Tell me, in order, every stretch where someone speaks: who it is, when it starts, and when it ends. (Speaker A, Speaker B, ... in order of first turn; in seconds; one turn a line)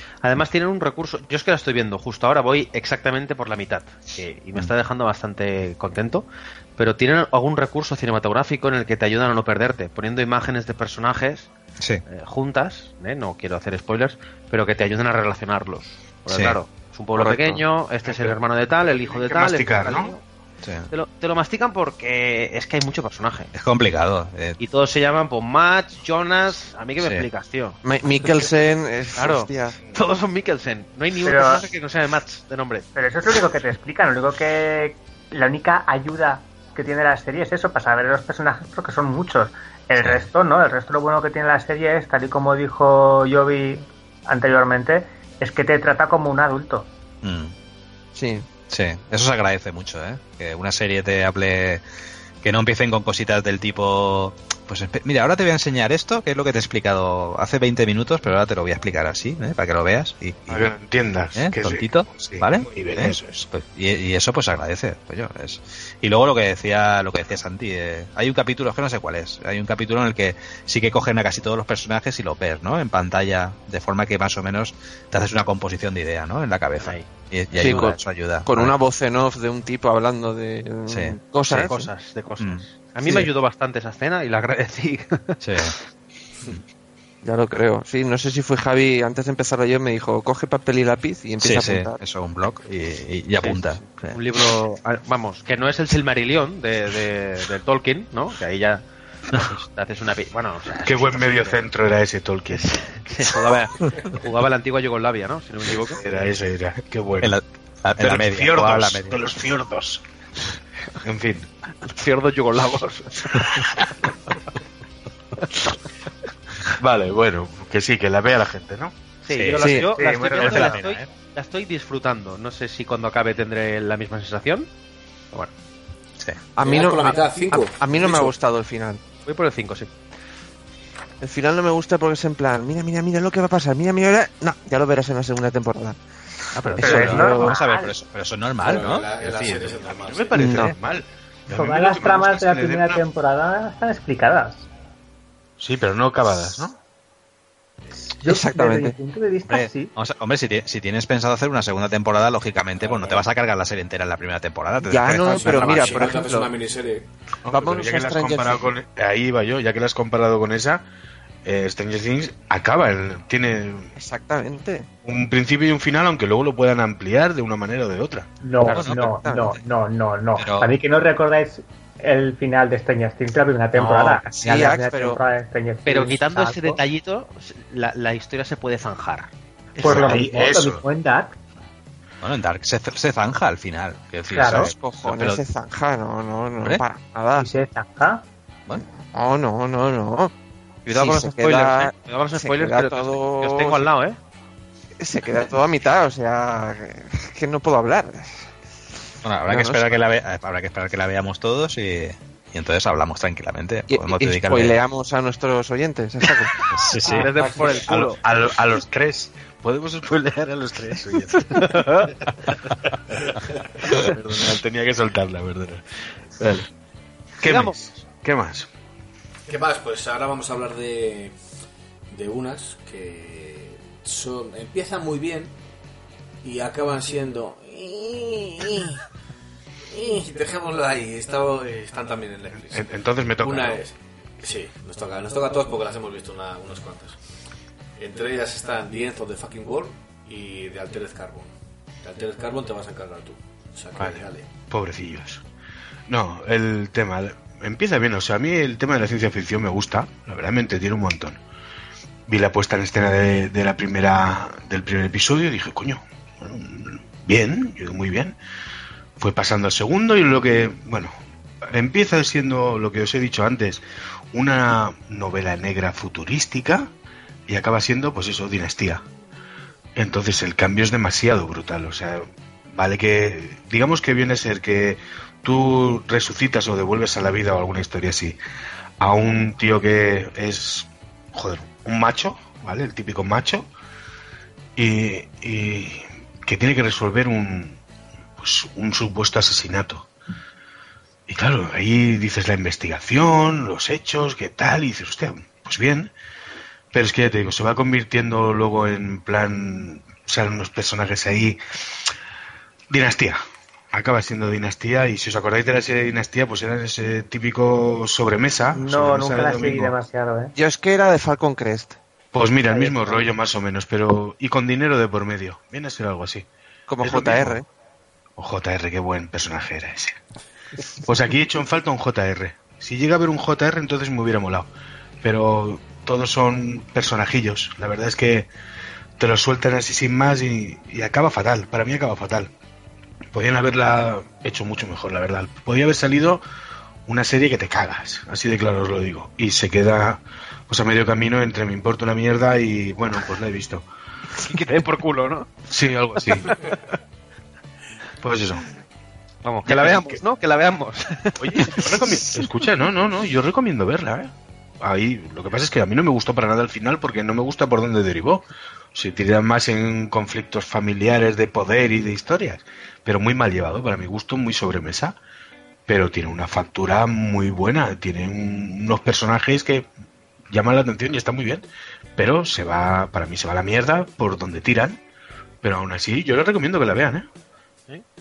Speaker A: 0.2-6.2
Speaker A: 6.8-11.5
Speaker A: 12.1-20.2
Speaker B: 16.3-16.6
Speaker C: 17.2-17.6
Speaker D: 18.0-20.1
Speaker B: 20.6-20.9
Speaker A: 20.9-23.5
Speaker B: 23.5-24.6
Speaker A: 24.6-27.8
Speaker B: 27.0-27.3
Speaker C: 27.8-29.8
Speaker A: 29.1-32.9
Speaker E: 31.2-31.6
Speaker E: 32.9-46.9
Speaker B: 40.0-40.2
Speaker B: 47.2-47.5
Speaker C: 48.1-48.5
Speaker B: 48.7-51.8
Speaker B: 52.4-60.7
Speaker D: 60.5-63.5
Speaker B: 61.3-78.7
Speaker A: 76.8-78.0
Speaker C: 77.5-81.9
Speaker B: 80.9-81.2
Speaker A: 81.5-85.4
Speaker B: 82.4-83.2
Speaker B: 85.4-85.7
Speaker C: 87.2-92.0
Speaker B: 91.4-94.2
Speaker A: 93.4-98.8
Speaker B: 99.3-99.6
Speaker A: 99.4-101.6
Speaker D: 100.8-102.7
Speaker A: 102.5-106.0
Speaker D: 105.7-107.3
Speaker B: 107.2-109.2
Speaker D: 108.0-110.0
Speaker D: 111.0-111.5
Speaker A: 111.8-113.9
Speaker D: 116.8-118.9
Speaker A: 119.2-124.7
Speaker B: 119.3-121.1
Speaker C: 119.5-119.9
Speaker E: 120.0-120.8
Speaker B: 126.2-126.4
Speaker C: 126.5-129.0
Speaker F: 126.6-128.3
Speaker A: 129.2-129.9
Speaker C: 131.2-136.0
Speaker A: 136.6-137.3
Speaker B: 136.8-139.7
Speaker E: 136.8-137.9
Speaker C: 136.8-137.5
Speaker F: 138.6-140.4
Speaker D: 139.8-143.0
Speaker C: 140.3-140.7
Speaker E: 141.5-144.7
Speaker D: 145.6-146.8
Speaker E: 148.2-149.9
Speaker C: 148.2-148.9
Speaker B: 149.5-156.0
Speaker F: 152.8-153.3
Speaker C: 154.8-156.5
Speaker F: 155.1-157.1
Speaker D: 157.4-160.8
Speaker C: 157.5-158.6
Speaker D: 161.4-163.9
Speaker C: 163.9-164.9
Speaker D: 165.0-168.3
Speaker E: 168.4-176.8
Speaker B: 168.7-169.0
Speaker C: 168.7-169.6
Speaker B: 170.4-170.7
Speaker C: 173.8-175.2
Speaker A: 175.8-179.3
Speaker E: 179.8-181.3
Speaker D: 179.8-180.8
Speaker B: 179.8-180.7
Speaker B: 182.2-185.4
Speaker E: 184.3-184.7
Speaker C: 184.4-187.5
Speaker E: 187.3-188.2
Speaker C: 189.0-190.3
Speaker A: 190.8-194.2
Speaker C: 190.9-193.9
Speaker C: 195.0-198.5
Speaker B: 199.2-204.8
Speaker C: 199.4-200.0
Speaker C: 203.9-206.5
Speaker B: 206.7-207.3
Speaker A: 207.0-208.2
Speaker D: 207.8-211.6
Speaker A: 211.5-212.1
Speaker D: 213.8-215.8
Speaker D: 217.4-218.7
Speaker A: 217.4-217.8
Speaker F: 219.5-221.3
Speaker F: 222.1-225.5
Speaker F: 226.4-229.0
Speaker F: 229.9-237.2
Speaker D: 232.7-233.8
Speaker F: 238.0-241.5
Speaker F: 242.0-244.5
Speaker D: 243.9-245.4
Speaker D: 246.1-251.4
Speaker D: 252.3-258.4
Speaker D: 259.2-261.1
Speaker D: 261.6-266.9
Speaker D: 267.5-269.0
Speaker D: 269.9-278.4
Speaker D: 279.0-283.7
Speaker D: 284.8-287.8
Speaker D: 288.4-290.1
Speaker D: 291.3-296.1
Speaker D: 296.9-301.6
Speaker D: 302.9-303.4
Speaker D: 303.9-309.9
Speaker E: 308.7-310.5
Speaker C: 310.5-312.0
Speaker D: 312.3-316.5
Speaker C: 312.7-313.2
Speaker C: 316.9-317.6
Speaker D: 317.0-317.6
Speaker D: 318.4-320.2
Speaker D: 321.0-324.7
Speaker D: 325.2-328.5
Speaker D: 329.2-332.5
Speaker D: 333.3-336.4
Speaker D: 337.1-343.8
Speaker A: 344.4-345.5
Speaker D: 345.7-346.6
Speaker A: 346.3-346.8
Speaker D: 348.2-348.6
Speaker A: 349.4-352.2
Speaker D: 349.6-350.2
Speaker D: 351.4-365.2
Speaker D: 365.9-369.9
Speaker D: 370.5-371.6
Speaker D: 372.1-375.0
Speaker D: 375.6-377.3